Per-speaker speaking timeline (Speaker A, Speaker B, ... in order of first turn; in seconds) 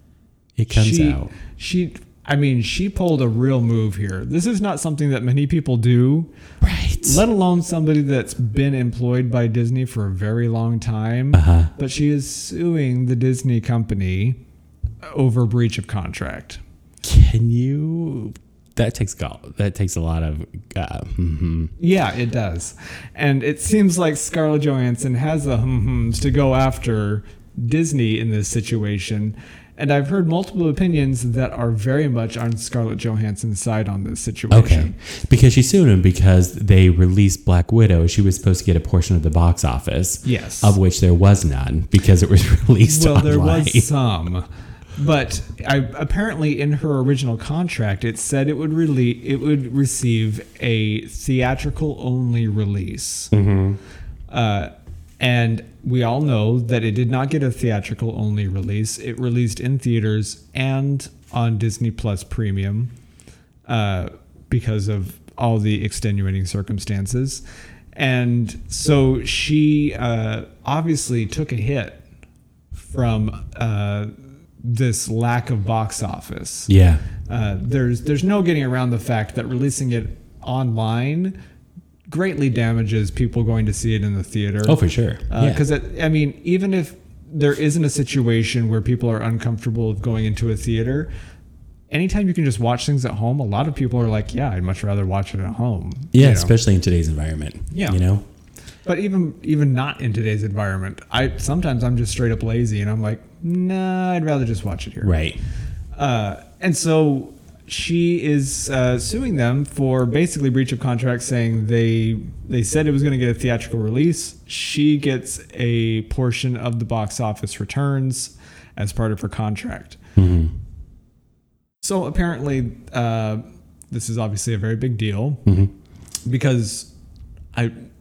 Speaker A: 0.6-1.3, 6.6-7.2, 11.3-11.7, 17.0-21.7, 34.5-43.9, 53.3-53.8, 76.7-77.0, 84.6-85.6, 96.1-98.2, 105.0-105.4, 120.2-120.5, 125.5-125.7
Speaker B: 0.7-6.3, 7.0-14.4, 15.0-16.6, 21.8-34.9, 40.2-40.8, 42.8-53.3, 54.3-62.9, 63.7-67.4, 67.9-72.0, 72.8-76.7, 77.2-81.3, 82.1-84.8, 85.3-91.1, 91.9-96.5, 97.7-98.0, 98.8-105.1, 106.0-120.0, 121.8-125.4, 126.2-126.9